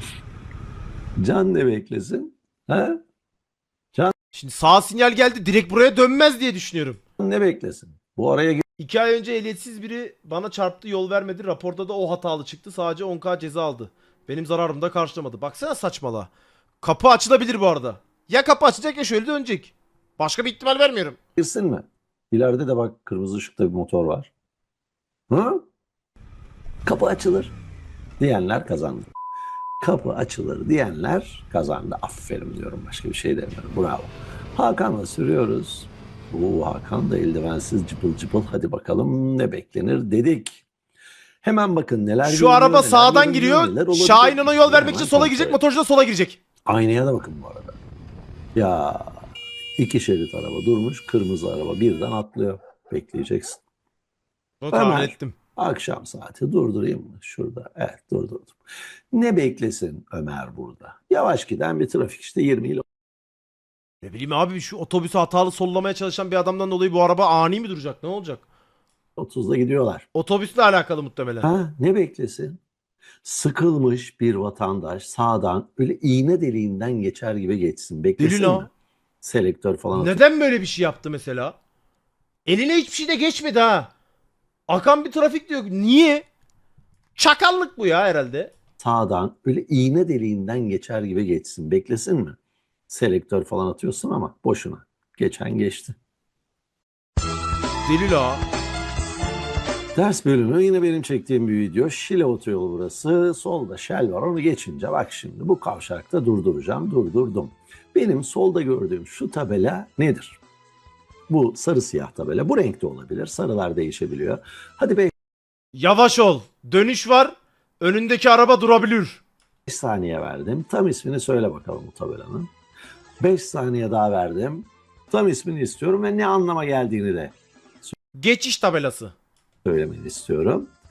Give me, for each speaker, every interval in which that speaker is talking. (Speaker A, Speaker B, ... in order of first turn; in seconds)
Speaker A: 1.2-3.0, 7.2-8.6, 21.4-24.3, 25.3-25.6, 26.8-27.5, 28.2-29.1, 29.8-40.6, 41.4-45.6, 46.6-47.8, 48.5-53.6, 54.7-62.8, 69.2-70.0, 71.4-72.6, 73.2-78.7, 79.2-80.2, 88.8-92.4, 92.9-96.0, 99.9-110.4, 111.3-115.1, 119.7-122.5, 123.2-127.3, 129.6-130.7
Speaker B: 4.3-7.0, 8.8-16.3, 16.8-21.2, 42.2-46.4, 54.6-55.3, 64.0-68.4, 70.1-71.5, 78.2-78.7, 79.9-81.5, 82.5-83.9, 84.7-86.2, 87.1-88.5, 97.8-98.4, 115.7-119.2, 128.1-129.1